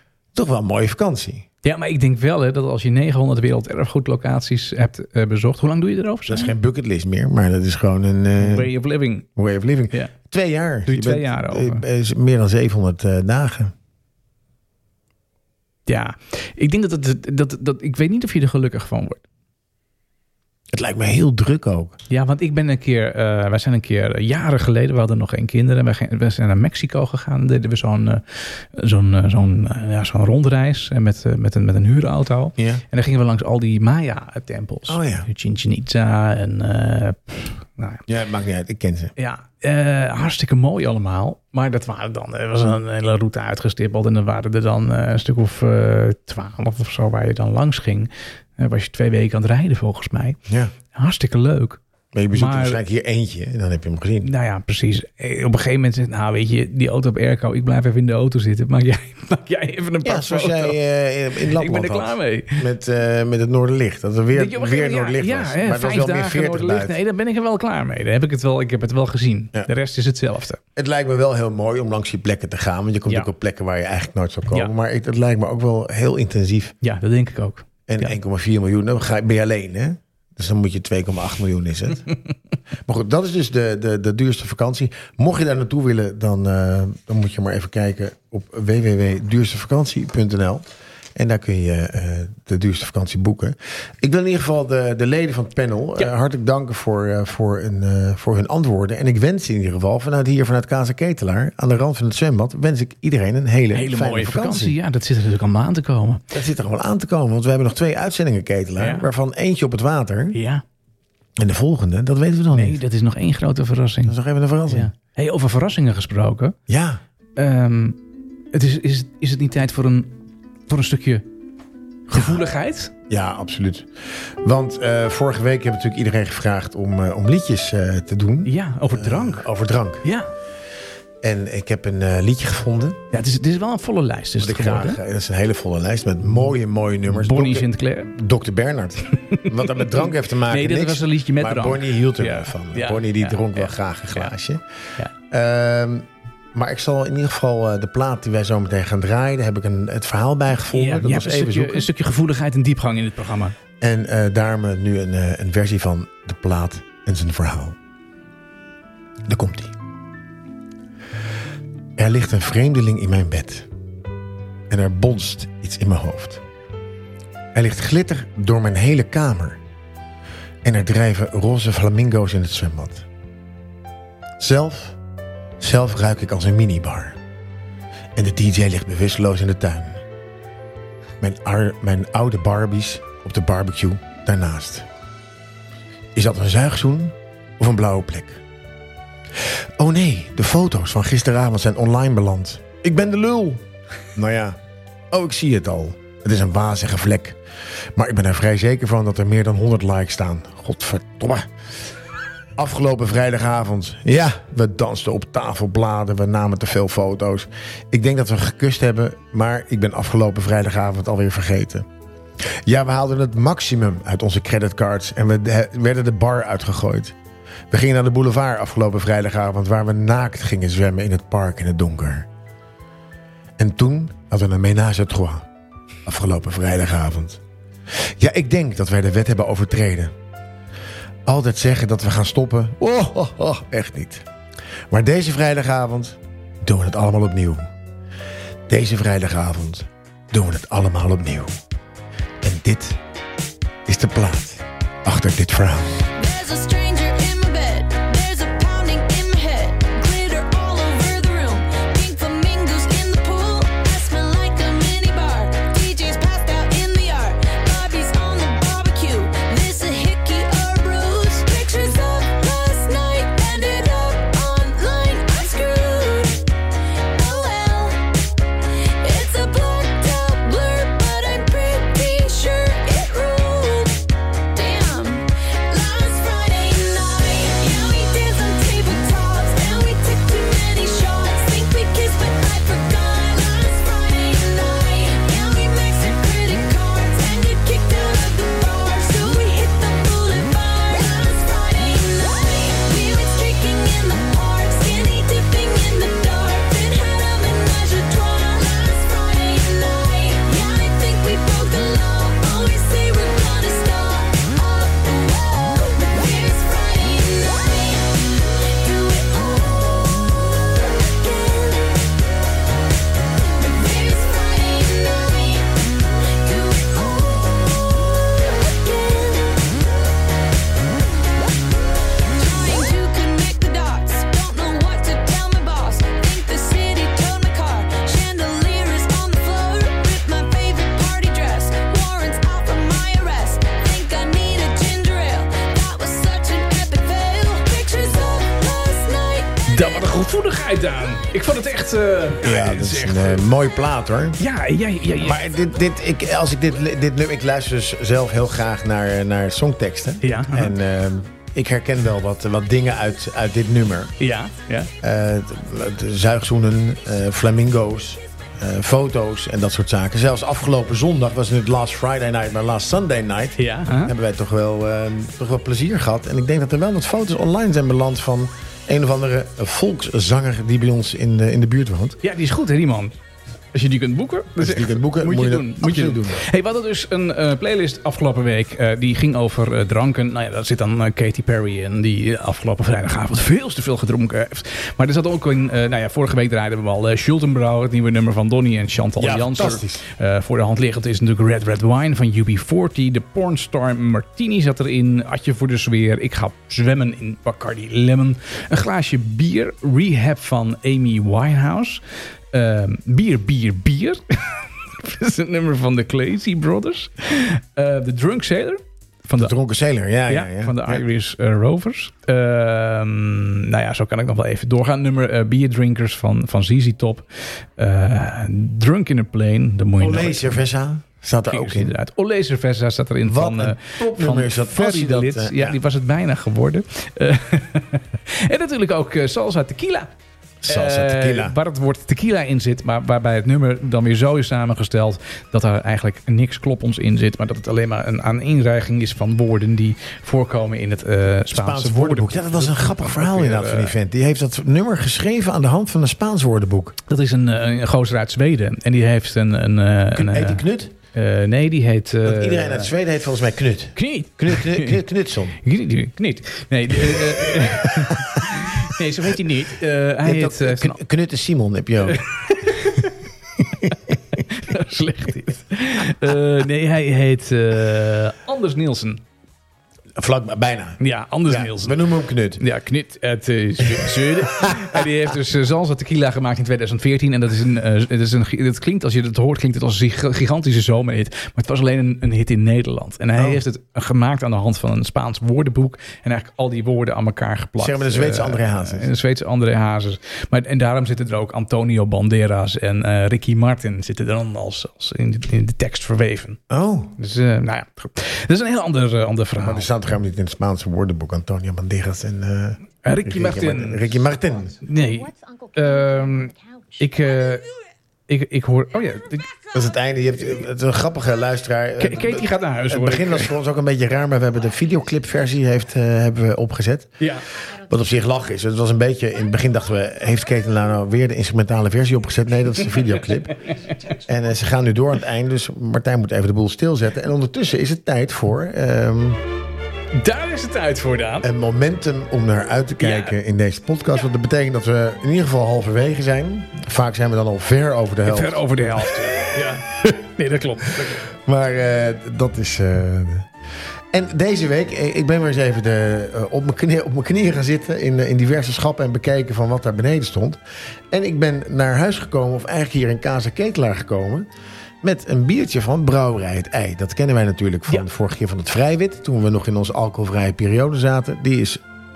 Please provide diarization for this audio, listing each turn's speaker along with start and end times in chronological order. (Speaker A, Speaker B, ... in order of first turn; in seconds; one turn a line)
Speaker A: 0.3-1.4
Speaker B: 1.6-6.5
Speaker A: 6.3-8.7
Speaker B: 8.4-9.3
Speaker A: 9.3-13.7
Speaker B: 10.8-11.8
Speaker B: 15.9-19.2
Speaker A: 20.7-22.0
Speaker B: 22.1-38.0
Speaker A: 32.6-32.8
Speaker A: 34.9-35.3
Speaker A: 38.1-39.1
Speaker B: 39.1-50.4
Speaker A: 50.5-50.7
Speaker B: 50.9-51.8
Speaker A: 52.1-54.3
Speaker B: 52.3-52.8
Speaker B: 54.2-60.8
Speaker A: 60.0-67.0
Speaker B: 61.4-62.6
Speaker B: 64.3-70.6
Speaker A: 70.8-76.7
Speaker B: 76.8-78.1
Speaker A: 77.9-82.1
Speaker A: 82.8-90.6
Speaker A: 91.2-104.8
Speaker B: 103.7-106.2
Speaker A: 106.3-110.4
Speaker B: 108.8-109.1
Speaker B: 110.3-110.6
Speaker A: 111.4-112.8
Speaker B: 112.5-116.6
Speaker A: 114.1-114.9
Speaker A: 116.7-117.0
Speaker B: 117.3-118.0
Speaker B: 118.5-121.2
Speaker A: 122.1-122.4
Speaker B: 122.1-122.9
Speaker A: 123.1-130.0
Speaker B: 128.4-129.4
Speaker B: 130.0-130.3
Speaker A: 131.2-133.0
Speaker B: 133.1-135.0
Speaker A: 134.4-144.6
Speaker B: 137.1-138.1
Speaker B: 139.1-144.3
Speaker A: 145.3-151.9
Speaker B: 150.7-153.6
Speaker A: 153.8-157.8
Speaker A: 159.2-159.7
Speaker A: 162.0-163.7
Speaker A: 164.7-166.4
Speaker A: 167.5-169.6
Speaker A: 170.6-173.1
Speaker A: 174.4-175.0
Speaker A: 175.6-177.2
Speaker A: 178.1-180.0
Speaker A: 181.2-184.9
Speaker A: 186.1-188.4
Speaker A: 189.8-193.6
Speaker A: 194.1-194.6
Speaker A: 195.1-197.4
Speaker A: 197.9-201.5
Speaker A: 202.6-211.9
Speaker A: 212.6-217.1
Speaker A: 217.7-222.3
Speaker A: 223.6-225.5
Speaker A: 226.1-227.4
Speaker A: 228.0-230.1
Speaker A: 231.2-234.2
Speaker A: 234.9-237.6
Speaker A: 238.7-241.5
Speaker A: 242.4-243.0
Speaker A: 243.8-246.0
Speaker C: 246.1-266.4
Speaker C: 267.1-268.0
Speaker C: 269.0-274.0
Speaker C: 274.5-312.0
Speaker C: 313.6-319.8
Speaker C: 322.3-339.6
Speaker B: 339.7-343.4
Speaker A: 342.4-344.4
Speaker B: 344.4-345.4
Speaker A: 345.2-354.1
Speaker B: 350.2-350.7
Speaker B: 354.2-354.9
Speaker A: 355.0-372.2
Speaker B: 363.6-364.1
Speaker B: 372.2-373.1
Speaker B: 373.7-409.5
Speaker A: 374.6-376.4
Speaker A: 389.2-390.0
Speaker A: 409.4-411.0
Speaker B: 410.3-420.6
Speaker A: 420.0-421.9
Speaker B: 421.5-430.1
Speaker A: 423.2-425.8
Speaker A: 430.6-431.6
Speaker B: 430.6-443.9
Speaker A: 441.5-446.9
Speaker B: 447.1-452.9
Speaker A: 450.1-450.9
Speaker A: 452.2-455.6
Speaker B: 453.9-455.0
Speaker B: 455.6-461.0
Speaker A: 457.1-458.7
Speaker A: 460.2-462.7
Speaker B: 462.1-463.2
Speaker B: 463.8-469.2
Speaker A: 463.8-464.1
Speaker A: 470.2-472.6
Speaker B: 471.0-472.0
Speaker B: 472.6-496.6
Speaker A: 474.0-475.0
Speaker A: 483.4-483.6
Speaker A: 487.8-489.1
Speaker A: 496.7-497.1
Speaker B: 497.1-499.9
Speaker A: 499.6-504.8
Speaker B: 503.0-504.2
Speaker B: 504.8-507.6
Speaker B: 508.3-509.5
Speaker A: 509.7-517.2
Speaker B: 512.0-513.5
Speaker B: 517.2-517.4
Speaker A: 517.8-523.6
Speaker A: 524.2-529.4
Speaker B: 530.1-531.5
Speaker A: 531.4-539.5
Speaker B: 533.0-533.4
Speaker B: 538.2-541.2
Speaker A: 541.0-543.5
Speaker A: 544.1-554.5
Speaker A: 555.0-561.8